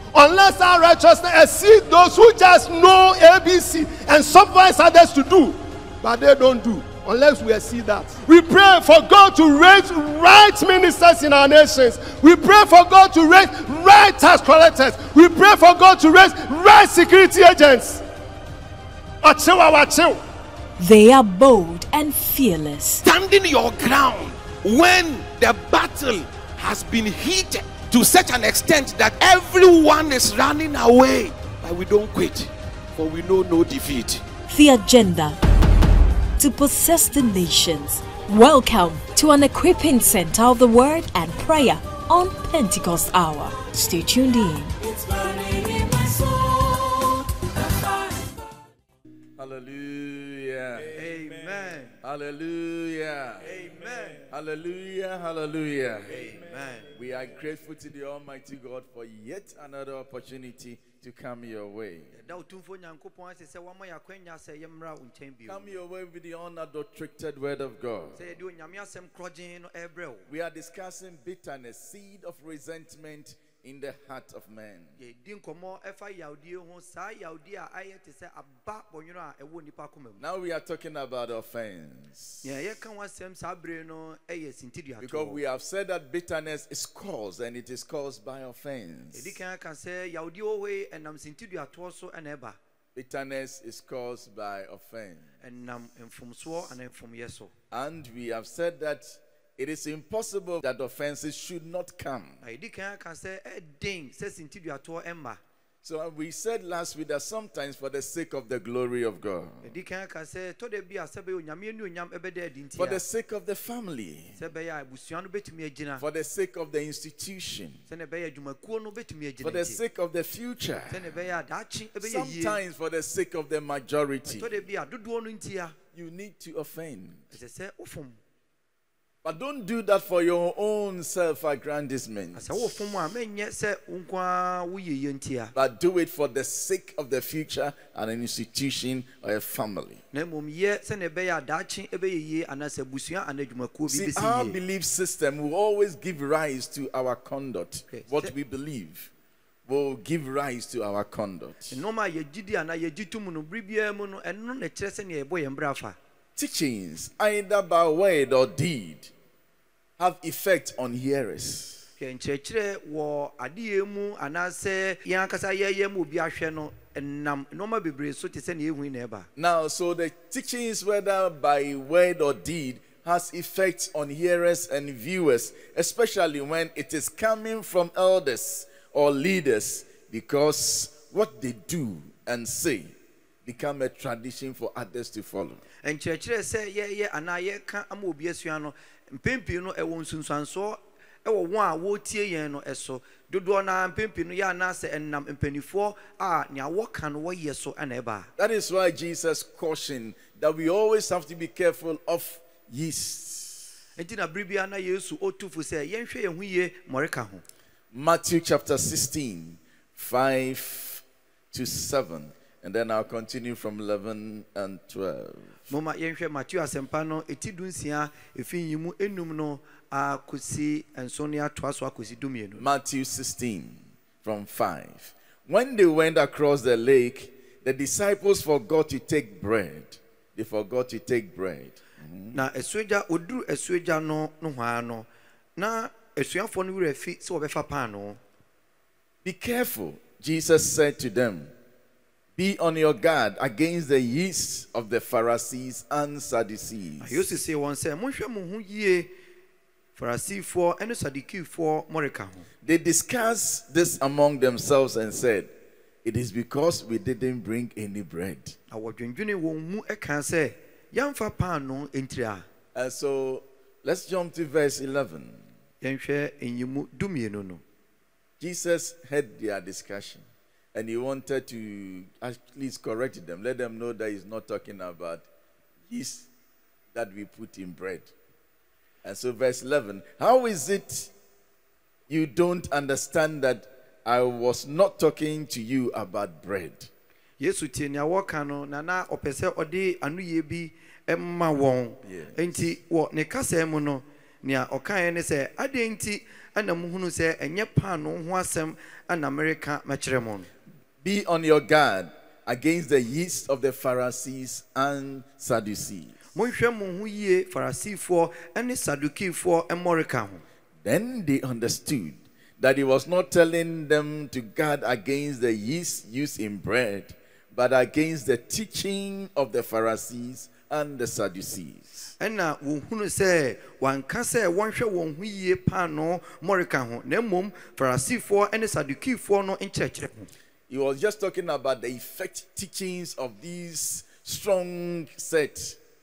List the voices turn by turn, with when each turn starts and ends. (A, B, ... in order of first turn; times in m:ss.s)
0:00.1-0:18.0 A
0:19.2-0:20.2 A
0:20.8-0:23.0 B
0:23.0-0:34.2 C
0:34.5-0:35.4 B
0:36.4-0:47.1 B
0:49.4-0:51.2 D
0:50.9-0:52.0 E
0:52.0-0:53.6 D
0:53.4-0:54.2 E
0:54.2-1:02.2 D
0:56.1-0:56.9 E
1:02.1-1:05.8 E
1:05.5-1:08.3 D
1:08.2-1:10.3 E
1:10.3-1:15.0 D
1:15.0-1:20.2 E
1:20.2-1:22.5 D
1:22.4-1:25.4 E
1:25.0-1:29.4 D
1:29.1-1:32.6 E
1:32.9-1:35.4 D
1:35.4-1:37.5 E
1:37.7-1:42.4 D
1:42.4-1:45.4 E
1:45.8-1:49.7 D
1:49.6-1:53.0 E
1:52.8-1:54.4 D
1:54.4-1:56.0 E
1:56.0-1:57.8 D
1:57.9-1:59.8 E
1:59.4-2:01.2 D
2:00.9-2:02.6 E
2:02.0-2:04.5 D
2:04.3-2:05.8 E
2:05.9-2:07.3 D
2:07.3-2:08.2 E
2:09.2-2:13.1 D
2:12.3-2:15.5 E
2:15.5-2:20.0 D
2:20.1-2:24.6 E
2:23.9-2:29.1 D
2:27.9-2:28.3 E
2:29.6-2:31.8 D
2:31.7-2:36.0 E
2:36.4-2:39.1 D
2:40.0-2:41.9 D
2:42.0-2:49.3 E
2:49.4-3:05.6 D
3:05.8-3:18.3 E
3:18.4-3:23.7 D
3:24.0-3:27.4 E
3:27.9-3:35.7 D
3:35.7-3:42.7 E
3:42.6-3:52.4 D
3:52.3-3:58.2 E
3:59.2-4:01.5 D
4:02.4-4:07.3 D
4:07.0-4:09.1 E
4:10.0-4:12.5 E
4:12.6-4:15.5 D
4:16.0-4:18.6 D
4:18.7-4:22.4 E
4:22.7-4:25.4 D
4:25.8-4:27.6 E
4:28.4-4:35.3 D
4:35.9-4:36.3 D
4:36.9-4:38.1 D
4:39.0-4:41.1 D
4:42.1-4:46.9 D
4:47.4-5:00.5 E
4:52.0-4:52.7 D
5:01.0-5:06.2 D
5:06.3-5:10.4 E
5:10.8-5:22.1 D
5:22.2-5:30.3 E
5:30.7-5:35.8 D